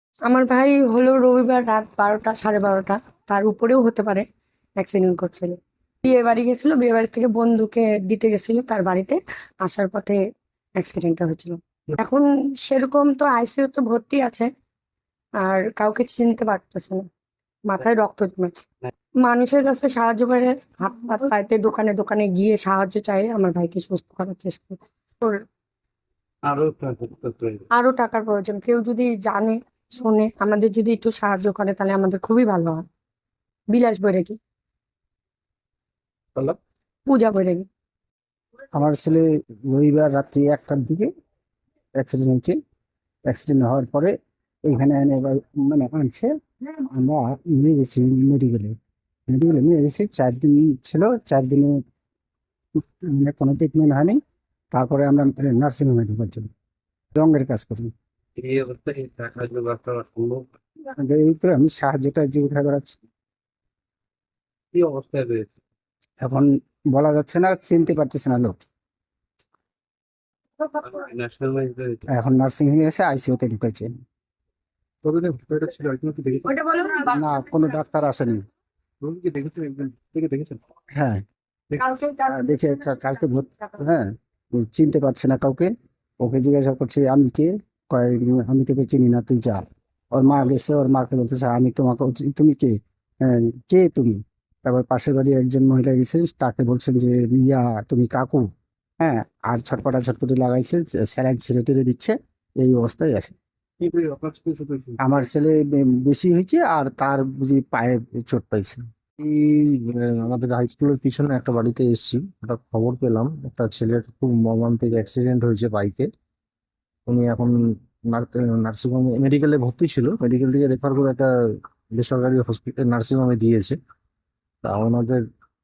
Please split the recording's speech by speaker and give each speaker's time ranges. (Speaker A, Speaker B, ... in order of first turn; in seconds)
Speaker A: 0.3-4.2, 4.8-10.2, 10.8-11.6, 12.1-14.5, 15.4-17.1, 17.7-18.6, 19.2-25.4, 27.8-32.8, 33.7-34.4, 37.1-37.6
Speaker B: 26.5-27.6, 58.4-60.5, 64.7-65.6, 70.8-72.0
Speaker C: 38.7-41.1, 42.0-42.6, 43.3-44.1, 44.6-48.8, 49.3-51.8, 53.0-54.2, 54.7-56.5, 57.1-57.9, 61.0-63.0, 66.2-68.6, 72.1-73.9, 77.1-78.4, 80.9-81.2, 82.3-98.5, 99.0-103.4, 105.0-108.8
Speaker D: 75.0-77.1, 79.0-80.6, 103.8-105.0, 109.2-116.1, 117.1-117.6, 118.1-121.3, 122.0-123.8, 124.6-125.2